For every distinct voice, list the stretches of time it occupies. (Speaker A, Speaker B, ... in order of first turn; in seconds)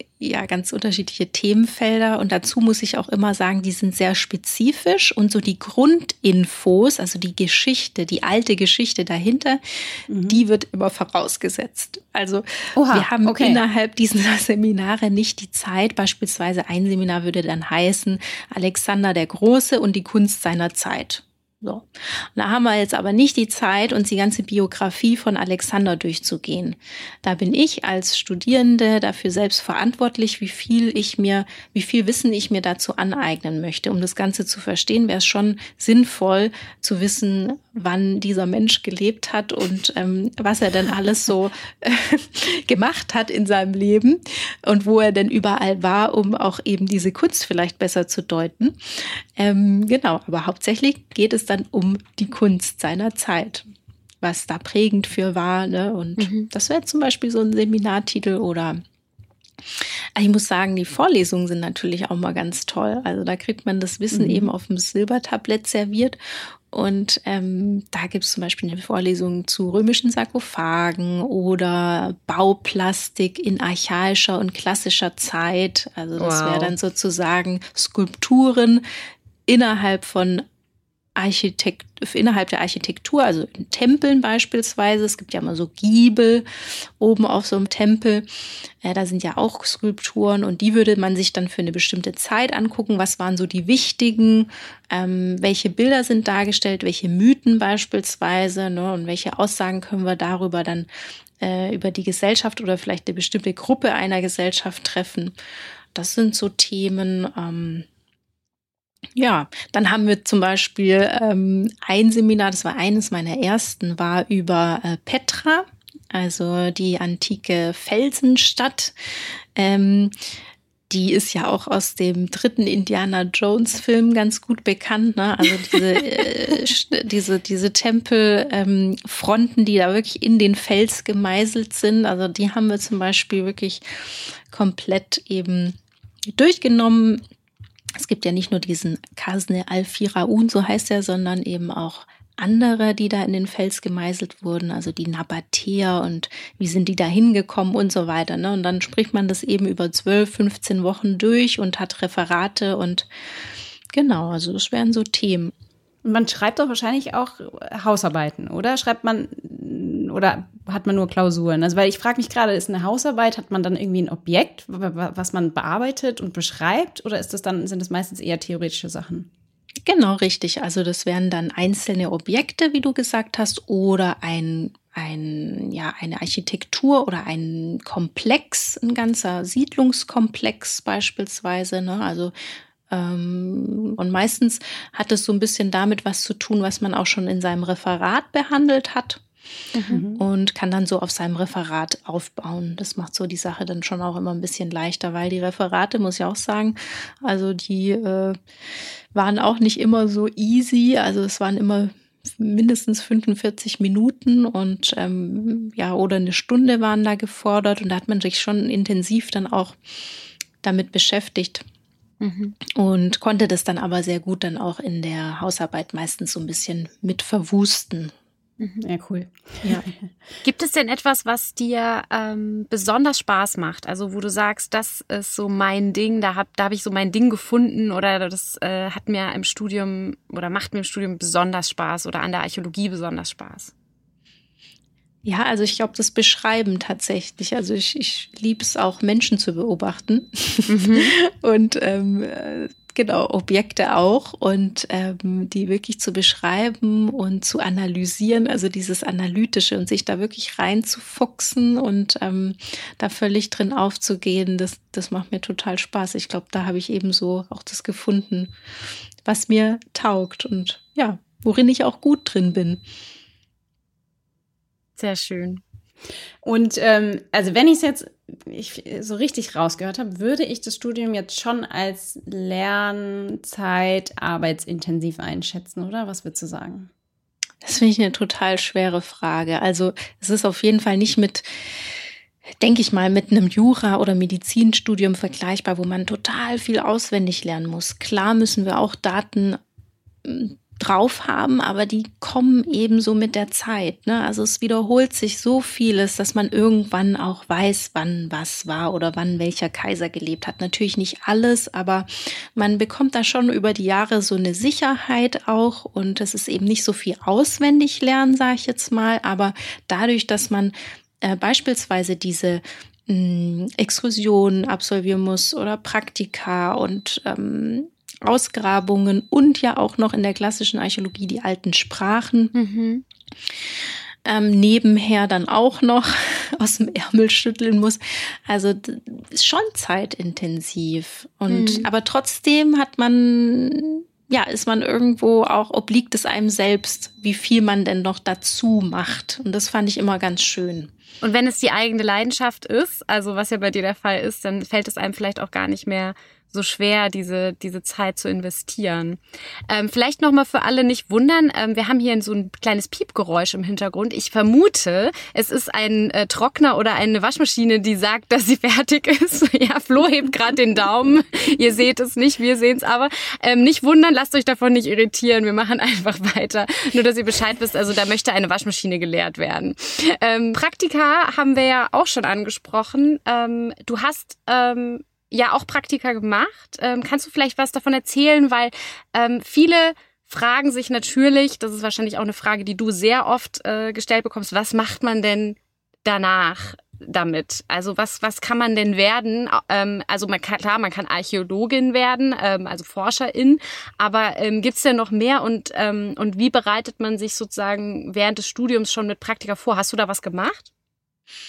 Speaker A: 0.2-53.7, 54.2-58.8, 59.8-66.2, 66.7-78.8, 79.5-80.5, 81.2-88.2, 88.8-100.9, 101.4-105.3, 105.9-107.9, 109.1-119.0, 119.5-120.1, 120.9-135.8, 136.3-137.2, 137.9-153.1, 153.9-155.5, 169.8-182.3, 182.9-189.2, 190.2-198.4, 199.1-209.8, 210.6-211.6, 212.7-218.1, 235.2-258.5, 259.2-262.8, 277.6-281.9, 282.6-289.6, 290.2-322.5, 324.2-340.9
Speaker B: 10.1-10.4, 12.8-13.6, 64.1-64.5, 156.0-169.3, 189.9-190.2, 218.8-219.9, 266.4-276.9
Speaker C: 56.2-56.5, 76.2-76.7, 189.7-190.0, 212.2-212.6, 218.6-218.8, 220.4-233.7, 240.7-241.1, 265.0-265.6, 322.5-323.0, 331.5-331.9, 341.2-400.7